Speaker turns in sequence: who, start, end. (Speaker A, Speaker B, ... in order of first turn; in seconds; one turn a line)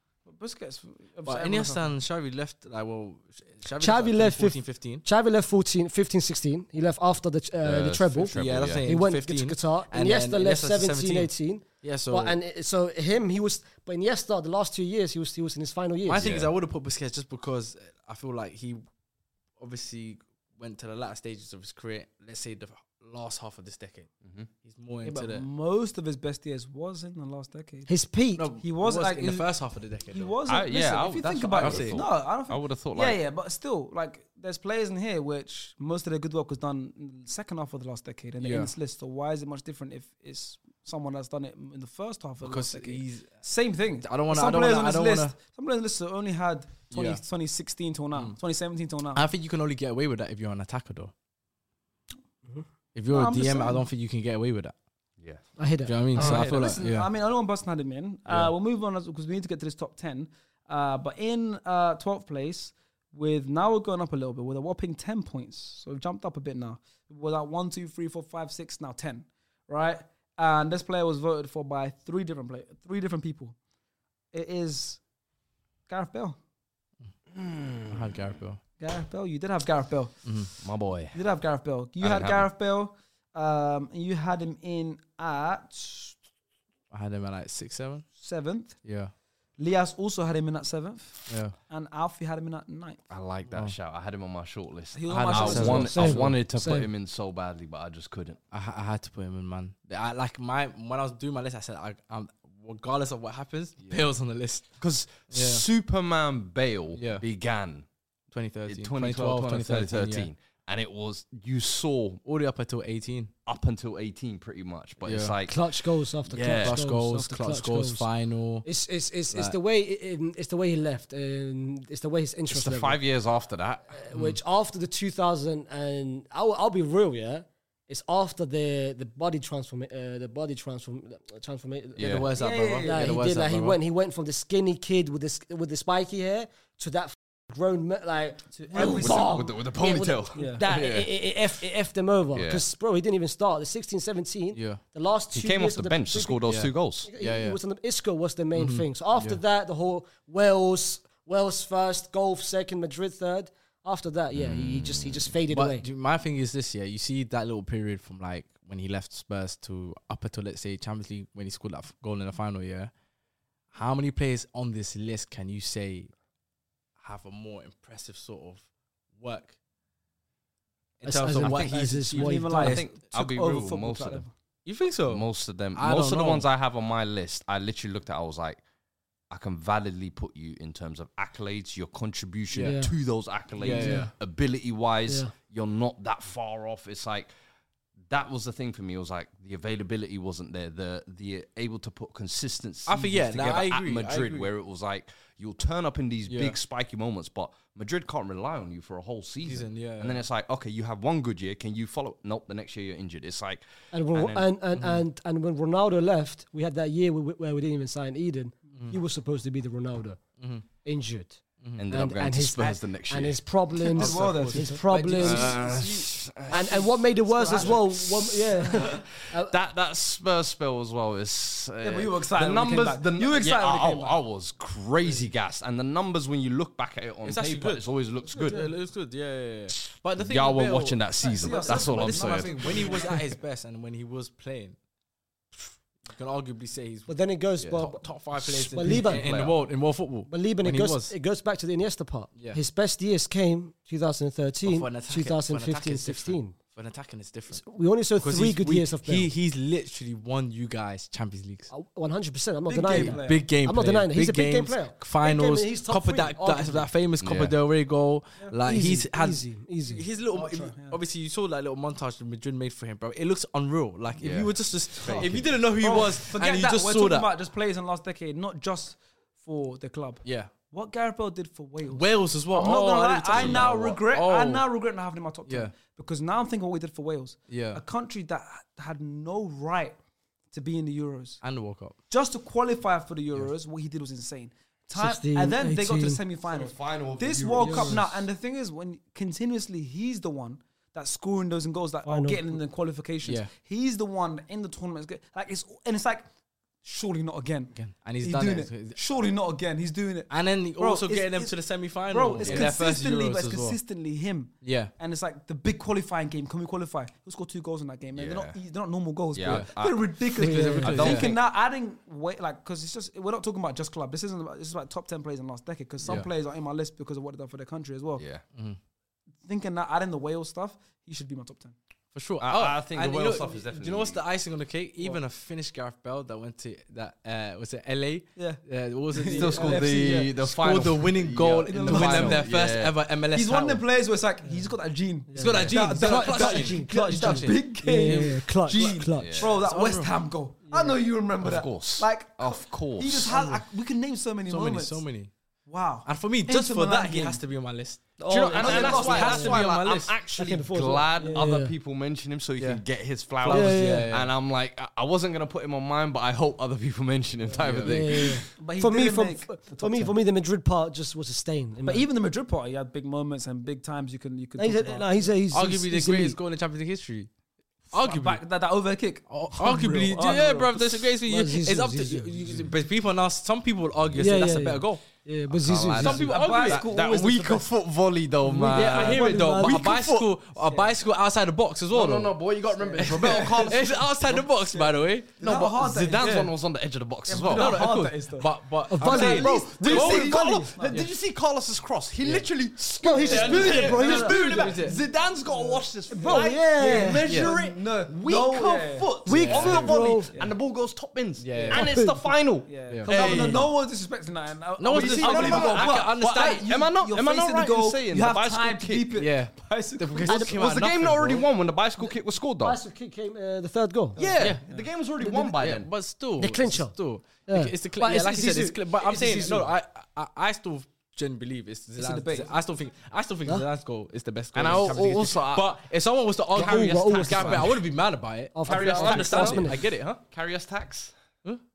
Speaker A: 0.2-1.9
Speaker B: 1.2-5.0
Speaker C: 3.8-16.4
Speaker D: 7.6-8.9
Speaker B: 8.3-11.3
Speaker B: 11.8-12.4
Speaker B: 16.1-18.8
Speaker D: 16.2-16.5
Speaker B: 19.6-25.5
Speaker A: 25.0-27.9
Speaker C: 27.9-28.5
Speaker B: 28.4-30.4
Speaker A: 28.6-29.5
Speaker A: 30.1-49.2
Speaker D: 30.5-33.2
Speaker B: 31.5-32.0
Speaker B: 38.4-38.7
Speaker B: 42.4-43.4
Speaker B: 44.0-45.4
Speaker B: 46.9-47.2
Speaker B: 49.1-51.1
Speaker B: 53.0-54.8
Speaker A: 53.1-53.8
Speaker C: 55.6-56.5
Speaker B: 55.9-57.1
Speaker A: 56.1-73.6
Speaker D: 56.2-56.8
Speaker A: 74.3-75.0
Speaker A: 75.9-76.4
Speaker D: 77.4-78.0
Speaker B: 77.9-78.6
Speaker A: 78.8-80.3
Speaker B: 80.2-80.5
Speaker D: 80.6-81.2
Speaker A: 81.1-86.2
Speaker D: 82.0-82.5
Speaker B: 86.9-88.1
Speaker A: 88.2-88.8
Speaker B: 88.8-89.1
Speaker A: 89.6-93.0
Speaker B: 91.3-91.5
Speaker D: 93.1-98.4
Speaker B: 93.5-93.8
Speaker A: 94.9-96.1
Speaker B: 95.1-96.3
Speaker C: 95.7-96.9
Speaker B: 98.5-105.7
Speaker D: 104.8-107.9
Speaker B: 107.0-107.2
Speaker B: 108.3-110.3
Speaker D: 108.7-112.2
Speaker B: 112.2-113.3
Speaker D: 113.5-115.8
Speaker B: 115.0-115.3
Speaker C: 115.5-118.1
Speaker D: 116.3-116.8
Speaker B: 116.5-118.7
Speaker C: 118.6-123.0
Speaker D: 122.5-124.0
Speaker C: 123.9-132.2
Speaker D: 132.0-132.3
Speaker B: 132.0-133.8
Speaker A: 132.3-133.2
Speaker C: 132.8-155.9
Speaker A: 138.6-139.7
Speaker D: 138.8-140.6
Speaker A: 140.3-140.6
Speaker B: 140.7-141.1
Speaker D: 142.3-142.6
Speaker B: 144.6-144.8
Speaker D: 145.3-147.1
Speaker B: 146.5-147.6
Speaker B: 148.6-149.4
Speaker D: 154.3-155.3
Speaker B: 155.5-162.9
Speaker B: 163.7-166.1
Speaker B: 167.0-169.6
Speaker B: 171.0-172.8
Speaker C: 171.0-172.8
Speaker D: 171.4-171.8
Speaker A: 171.5-174.3
Speaker D: 172.6-174.3
Speaker B: 174.7-176.5
Speaker D: 175.1-178.6
Speaker D: 179.3-187.3
Speaker B: 182.5-182.8
Speaker C: 182.6-182.9
Speaker B: 183.6-184.1
Speaker A: 183.7-184.0
Speaker C: 183.8-184.1
Speaker D: 188.1-204.5
Speaker B: 192.9-194.5
Speaker B: 196.3-196.6
Speaker B: 199.4-200.2
Speaker C: 203.9-210.2
Speaker B: 204.8-205.0
Speaker B: 210.4-210.7
Speaker C: 210.8-211.4
Speaker D: 211.8-213.9
Speaker C: 211.9-215.6
Speaker A: 213.9-214.8
Speaker B: 214.0-216.1
Speaker D: 215.2-228.6
Speaker C: 216.5-219.6
Speaker A: 217.4-217.8
Speaker A: 221.8-224.2
Speaker B: 227.2-234.8
Speaker A: 228.3-228.7
Speaker D: 229.8-233.0
Speaker A: 231.2-233.3
Speaker B: 236.0-241.2
Speaker C: 237.1-239.3
Speaker D: 238.8-239.6
Speaker C: 240.3-246.6
Speaker B: 244.7-247.7
Speaker C: 247.5-249.3
Speaker B: 248.2-251.7
Speaker C: 251.7-256.9
Speaker A: 252.7-253.5
Speaker B: 252.9-267.3
Speaker D: 257.2-257.6
Speaker C: 258.6-260.1
Speaker A: 260.3-261.0
Speaker D: 264.2-265.7
Speaker A: 265.1-280.0
Speaker B: 270.2-270.5
Speaker B: 271.9-274.7
Speaker D: 273.3-273.7
Speaker B: 275.5-275.8
Speaker B: 277.5-277.8
Speaker A: 280.5-281.4
Speaker B: 281.4-282.0
Speaker A: 282.1-296.3
Speaker C: 284.9-286.2
Speaker D: 286.5-288.2
Speaker C: 287.6-288.0
Speaker C: 292.1-292.6
Speaker B: 293.2-293.5
Speaker A: 296.8-301.6
Speaker B: 297.8-299.0
Speaker B: 300.3-303.8
Speaker A: 302.1-318.2
Speaker D: 302.4-302.8
Speaker B: 304.6-304.9
Speaker D: 308.1-308.6
Speaker D: 309.3-310.2
Speaker B: 309.4-309.7
Speaker C: 310.4-311.1
Speaker B: 310.4-311.4
Speaker D: 310.8-311.4
Speaker B: 316.0-316.3
Speaker D: 318.2-318.4
Speaker A: 319.4-321.8
Speaker B: 322.1-333.9
Speaker D: 322.4-324.2
Speaker A: 328.4-328.6
Speaker A: 329.1-330.4
Speaker D: 329.3-332.9
Speaker A: 331.7-332.5
Speaker A: 333.3-345.0
Speaker C: 335.3-339.5
Speaker B: 335.4-339.0
Speaker D: 335.5-335.8
Speaker D: 339.1-339.6
Speaker B: 339.6-340.1
Speaker C: 340.7-341.0
Speaker D: 341.4-343.3
Speaker B: 343.2-343.6
Speaker B: 344.5-345.3
Speaker A: 345.7-347.4
Speaker B: 346.1-350.2
Speaker C: 348.2-349.6
Speaker D: 348.3-358.6
Speaker A: 348.3-349.6
Speaker C: 350.4-351.7
Speaker B: 352.6-352.8
Speaker B: 353.4-354.3
Speaker C: 353.5-354.1
Speaker B: 357.6-358.1
Speaker C: 357.8-362.1
Speaker A: 358.6-360.1
Speaker A: 361.9-365.3
Speaker C: 364.6-366.4
Speaker B: 365.5-367.3
Speaker B: 367.9-368.4
Speaker A: 368.0-370.9
Speaker B: 369.3-375.0
Speaker C: 371.3-372.6
Speaker C: 374.2-376.2
Speaker D: 375.5-380.3
Speaker B: 375.9-376.9
Speaker A: 376.0-377.7
Speaker C: 378.5-379.9
Speaker B: 378.6-385.4
Speaker A: 380.6-380.9
Speaker D: 381.9-384.1
Speaker A: 382.8-386.5
Speaker D: 385.4-387.9
Speaker A: 387.3-388.5
Speaker B: 387.5-390.4
Speaker C: 388.9-389.8
Speaker A: 389.0-391.1
Speaker D: 389.0-403.7
Speaker B: 392.2-392.5
Speaker C: 393.0-394.5
Speaker A: 393.1-400.6
Speaker B: 393.4-395.0
Speaker C: 396.1-397.3
Speaker B: 397.3-397.5
Speaker C: 399.3-400.3
Speaker B: 399.3-399.9
Speaker B: 401.4-401.9
Speaker A: 401.6-401.9
Speaker C: 401.7-402.3
Speaker A: 402.7-410.4
Speaker B: 402.9-403.6
Speaker C: 403.1-403.6
Speaker B: 404.8-406.6
Speaker D: 404.9-409.1
Speaker B: 409.2-411.5
Speaker D: 410.3-412.8
Speaker C: 412.6-414.2
Speaker D: 414.2-415.9
Speaker A: 414.2-414.9
Speaker C: 415.2-415.5
Speaker B: 415.5-430.2
Speaker C: 416.4-416.9
Speaker C: 417.5-419.7
Speaker A: 422.0-422.5
Speaker D: 424.6-425.8
Speaker D: 426.5-427.8
Speaker C: 426.6-427.7
Speaker C: 428.5-429.8
Speaker D: 428.6-431.1